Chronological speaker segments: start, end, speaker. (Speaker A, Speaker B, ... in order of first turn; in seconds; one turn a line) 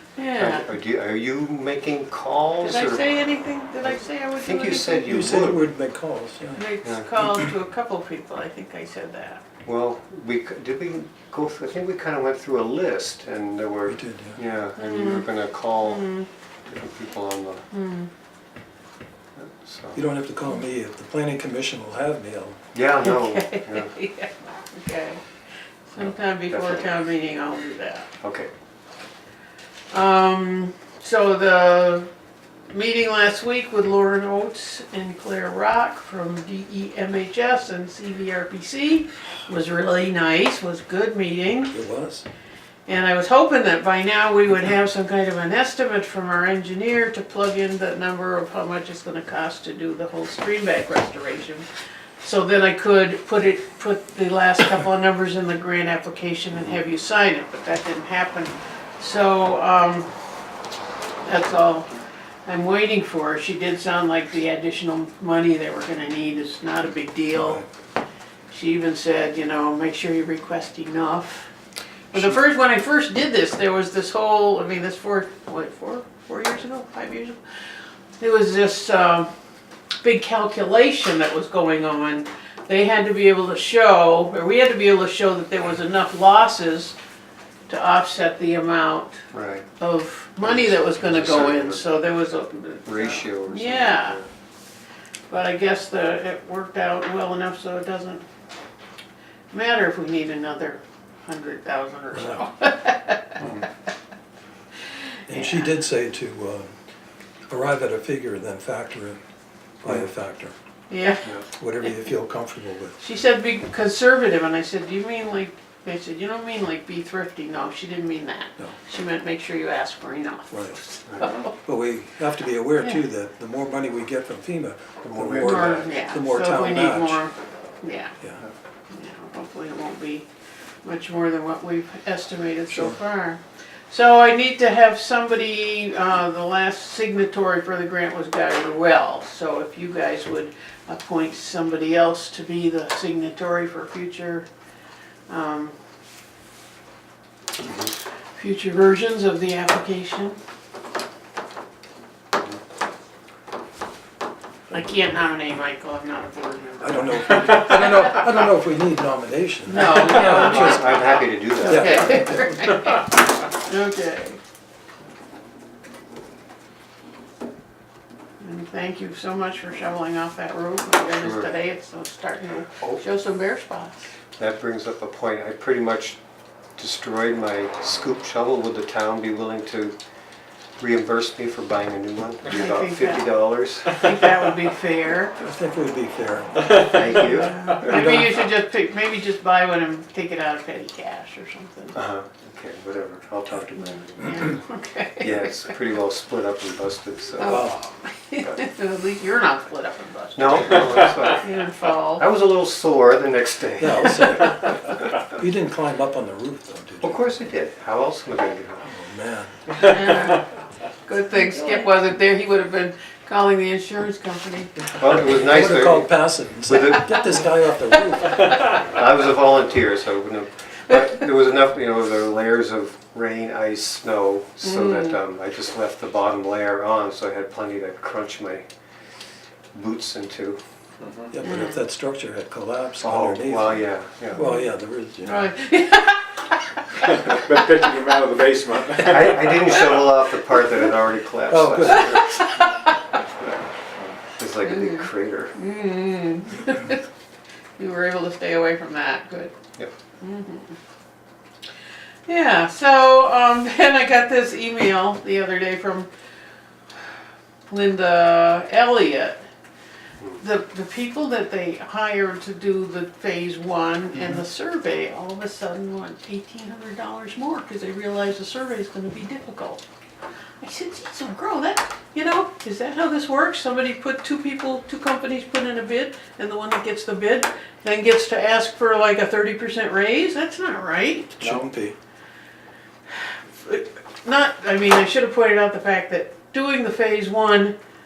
Speaker A: 0.2-0.7
Speaker B: 0.4-3.1
Speaker A: 2.6-5.3
Speaker B: 3.9-5.6
Speaker C: 5.1-6.6
Speaker A: 6.6-9.4
Speaker B: 6.8-7.1
Speaker B: 9.7-16.1
Speaker C: 13.9-14.4
Speaker A: 14.8-15.3
Speaker A: 15.8-16.3
Speaker B: 16.7-17.7
Speaker A: 17.7-18.1
Speaker B: 19.4-20.0
Speaker C: 19.9-22.6
Speaker B: 22.7-23.9
Speaker A: 23.0-25.2
Speaker A: 25.9-28.1
Speaker B: 26.0-26.9
Speaker B: 28.2-28.5
Speaker A: 29.9-32.1
Speaker A: 32.7-41.7
Speaker C: 41.7-42.2
Speaker A: 42.9-51.7
Speaker A: 52.2-60.1
Speaker A: 61.2-61.9
Speaker A: 62.5-67.6
Speaker A: 68.5-71.5
Speaker A: 72.1-77.4
Speaker A: 78.2-79.3
Speaker A: 80.0-87.0
Speaker A: 87.7-89.2
Speaker B: 89.3-89.7
Speaker A: 89.8-94.2
Speaker B: 90.4-91.9
Speaker B: 92.9-94.3
Speaker A: 95.3-98.2
Speaker A: 99.5-103.4
Speaker C: 102.1-102.4
Speaker D: 103.4-103.7
Speaker C: 105.3-106.7
Speaker A: 105.3-105.7
Speaker C: 107.5-109.2
Speaker C: 109.8-110.5
Speaker A: 110.9-111.4
Speaker C: 111.6-113.0
Speaker A: 113.0-121.6
Speaker C: 120.5-120.8
Speaker C: 121.6-127.2
Speaker B: 125.0-125.9
Speaker A: 125.4-128.1
Speaker A: 128.9-130.3
Speaker A: 130.8-144.5
Speaker C: 132.7-133.0
Speaker A: 145.3-145.8
Speaker B: 147.6-147.9
Speaker A: 148.3-150.4
Speaker A: 154.7-158.2
Speaker C: 156.8-160.8
Speaker A: 159.7-164.4
Speaker B: 160.2-162.4
Speaker C: 161.6-162.7
Speaker A: 168.4-174.1
Speaker B: 171.1-171.5
Speaker B: 174.4-176.2
Speaker B: 176.8-179.9
Speaker B: 180.8-184.1
Speaker A: 182.5-185.4
Speaker C: 185.4-186.7
Speaker D: 186.6-187.2
Speaker B: 186.8-188.1
Speaker A: 187.0-191.9
Speaker C: 187.8-188.3
Speaker B: 191.9-194.5
Speaker A: 193.9-195.7
Speaker B: 195.2-197.7
Speaker A: 197.4-202.2
Speaker C: 197.4-197.7
Speaker B: 200.4-201.5
Speaker B: 202.2-204.5
Speaker C: 203.8-207.2
Speaker B: 207.0-208.9
Speaker C: 208.8-209.7
Speaker A: 209.8-214.8
Speaker B: 214.9-216.1
Speaker C: 215.2-218.8
Speaker B: 216.7-217.2
Speaker B: 218.8-228.7
Speaker A: 224.6-225.2
Speaker B: 229.7-230.6
Speaker D: 231.0-231.3
Speaker C: 231.3-235.5
Speaker A: 231.4-231.8
Speaker B: 233.0-234.4
Speaker A: 234.3-234.6
Speaker A: 235.2-237.3
Speaker D: 237.0-239.9
Speaker B: 239.0-242.4
Speaker C: 241.5-242.2
Speaker A: 241.9-243.0
Speaker D: 243.2-244.2
Speaker B: 244.4-245.5
Speaker A: 244.6-247.0
Speaker A: 247.8-249.5
Speaker A: 250.2-250.8
Speaker A: 252.3-256.1
Speaker A: 257.7-259.4
Speaker A: 260.4-269.8
Speaker A: 270.6-281.6
Speaker C: 281.4-281.9
Speaker A: 283.1-287.8